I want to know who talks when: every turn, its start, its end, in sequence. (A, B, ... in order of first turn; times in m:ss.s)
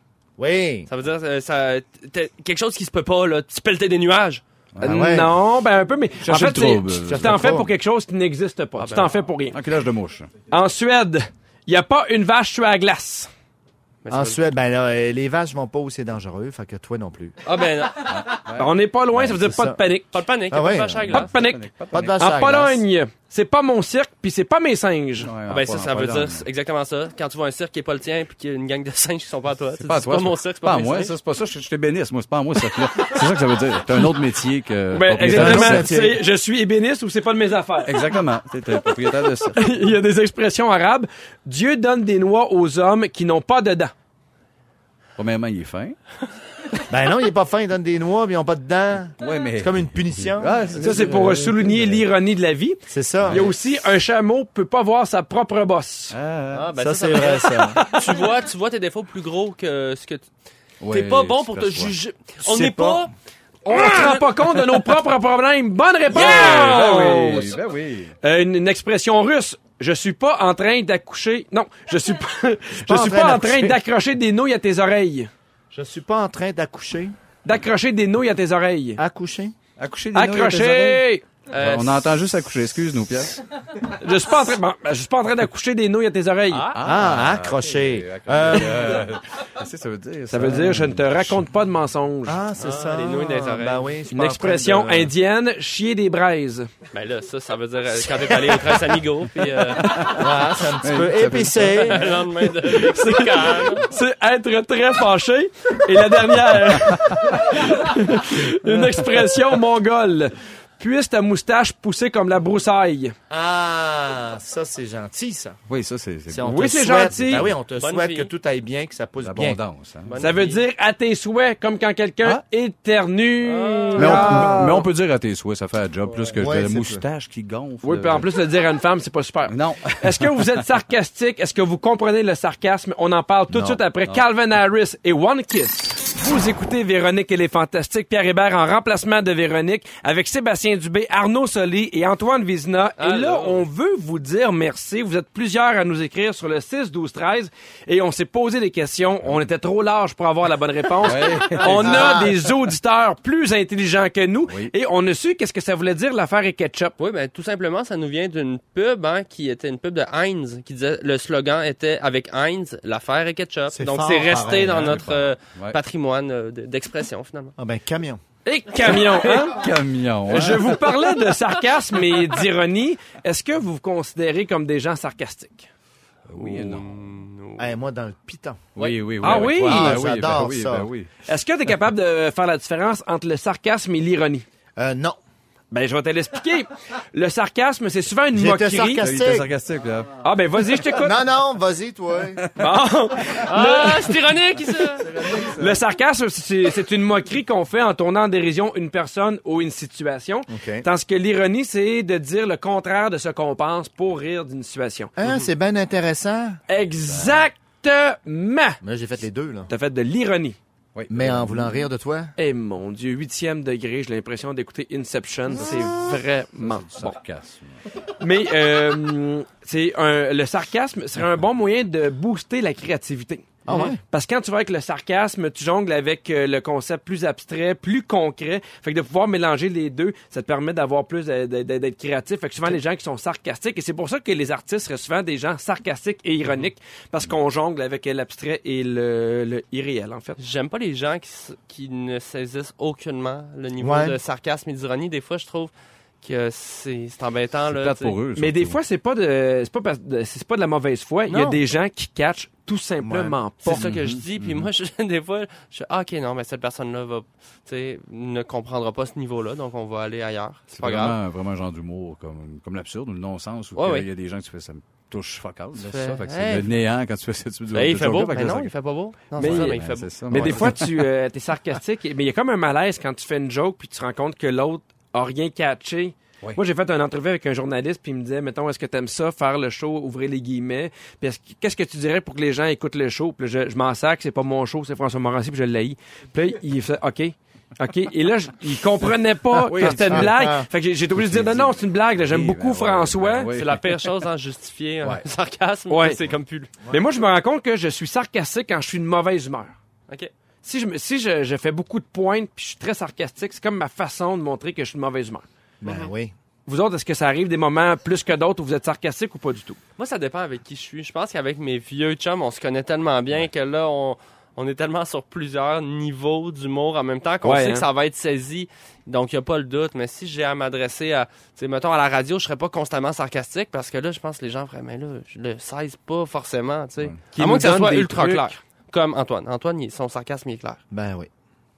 0:00.4-0:00.9 A
0:00.9-0:04.4 B
0:04.8-0:05.3 C
0:04.8-0:09.6 D
0:04.8-0:05.3 A
0:06.2-0:07.6 C
0:07.1-0:07.7 A
0:08.8-0:09.1 B
0:09.5-0:10.3 C
0:10.5-0:13.3 D
0:14.0-0:14.5 B
0:14.1-0:17.4 A
0:17.4-0:18.4 B
0:18.0-0:19.3 C
0:18.6-0:20.2 D
0:19.2-0:19.8 A
0:20.1-0:21.3 B
0:20.5-0:21.2 A
0:21.1-0:22.3 C
0:21.1-0:21.6 D
0:21.9-0:22.8 A
0:22.2-0:25.3 D
0:25.2-0:26.5 C
0:25.5-0:31.1 B
0:29.8-0:36.0 C
0:34.9-0:38.0 D
0:35.2-0:36.2 A
0:37.9-0:39.7 C
0:39.6-0:43.9 D
0:45.2-0:46.0 C
0:46.9-0:50.6 A
0:49.2-0:52.0 C
0:50.8-0:56.2 D
0:52.9-0:53.5 A
0:53.2-0:53.5 C
0:56.1-0:56.7 C
0:56.5-1:00.3 B
0:56.8-0:57.8 A
1:00.8-1:02.0 C
1:00.9-1:03.1 B
1:02.4-1:03.1 A
1:03.7-1:07.5 D
1:03.7-1:04.2 B
1:06.1-1:07.5 B
1:06.1-1:08.1 C
1:08.2-1:15.3 D
1:12.8-1:13.8 A
1:15.7-1:17.2 A
1:17.4-1:19.0 D
1:19.0-1:19.5 A
1:19.8-1:21.0 C
1:20.2-1:21.2 D
1:21.5-1:22.1 B
1:21.6-1:23.4 C
1:23.9-1:26.7 D
1:26.5-1:26.8 B
1:26.7-1:31.5 C
1:26.8-1:29.1 A
1:30.3-1:32.4 D
1:32.3-1:35.1 A
1:32.6-1:33.9 B
1:34.1-1:36.7 D
1:36.9-1:40.1 B
1:39.7-1:42.1 C
1:40.0-1:42.2 A
1:41.9-1:43.9 B
1:42.7-1:53.1 D
1:46.7-1:47.6 C
1:48.6-1:49.4 C
1:53.3-1:55.6 A
1:55.7-1:57.6 C
1:56.3-1:59.6 A
1:56.5-1:57.5 D
1:57.8-1:58.3 B
1:59.2-2:00.2 C
2:00.1-2:00.6 B
2:00.2-2:04.8 D
2:03.4-2:04.5 B
2:04.0-2:08.3 C
2:04.0-2:04.8 A
2:06.4-2:07.0 A
2:07.8-2:36.9 D
2:09.5-2:10.6 C
2:13.5-2:13.8 A
2:23.0-2:23.6 B
2:31.0-2:32.1 C
2:31.7-2:32.3 B
2:31.8-2:32.3 A
2:34.5-2:34.7 C
2:37.0-2:47.6 B
2:43.7-2:45.2 A
2:44.7-2:45.8 C
2:47.6-2:48.2 A
2:48.4-2:49.6 D
2:48.9-2:50.9 C
2:50.3-2:55.7 D
2:56.3-2:57.2 C
2:56.4-2:57.7 B
2:57.6-2:58.7 A
2:58.8-3:01.1 C
2:59.2-3:00.0 D
2:59.2-3:00.9 A
3:01.3-3:04.4 D
3:04.8-3:05.2 A
3:05.7-3:09.1 D
3:08.3-3:09.5 A
3:09.0-3:10.2 C
3:10.2-3:11.2 D
3:10.9-3:12.5 A
3:12.6-3:14.2 D
3:13.5-3:15.1 B
3:14.9-3:15.8 C
3:15.6-3:25.1 D
3:20.5-3:20.9 A
3:25.2-3:26.6 A
3:25.2-3:25.5 B
3:26.7-3:28.8 D
3:27.0-3:27.5 C
3:28.8-3:29.7 A
3:29.7-3:30.6 D
3:31.0-3:31.9 C
3:31.1-3:32.3 A
3:32.4-3:37.2 D
3:35.6-3:37.8 C
3:38.2-4:00.4 D
3:43.7-3:44.0 A
4:00.4-4:08.2 B
4:03.8-4:04.2 A
4:07.7-4:08.8 C
4:08.4-4:13.9 D
4:11.3-4:11.6 B
4:13.0-4:13.4 A
4:13.6-4:21.2 B
4:13.7-4:14.7 C
4:20.8-4:28.7 C
4:23.8-4:24.1 B
4:25.8-4:26.7 B
4:27.7-4:30.6 B
4:29.4-4:31.0 C
4:29.4-4:53.5 D
4:49.5-4:50.4 C
4:49.8-4:50.7 A
4:51.1-4:54.1 C
4:53.5-4:56.8 B
4:55.9-4:56.2 D
4:56.9-4:59.8 D
5:00.6-5:05.4 D
5:05.8-5:06.3 A
5:05.8-5:06.1 B
5:06.7-5:09.8 D
5:10.0-5:30.8 B
5:17.4-5:17.9 D
5:27.3-5:28.5 D
5:30.9-5:31.3 A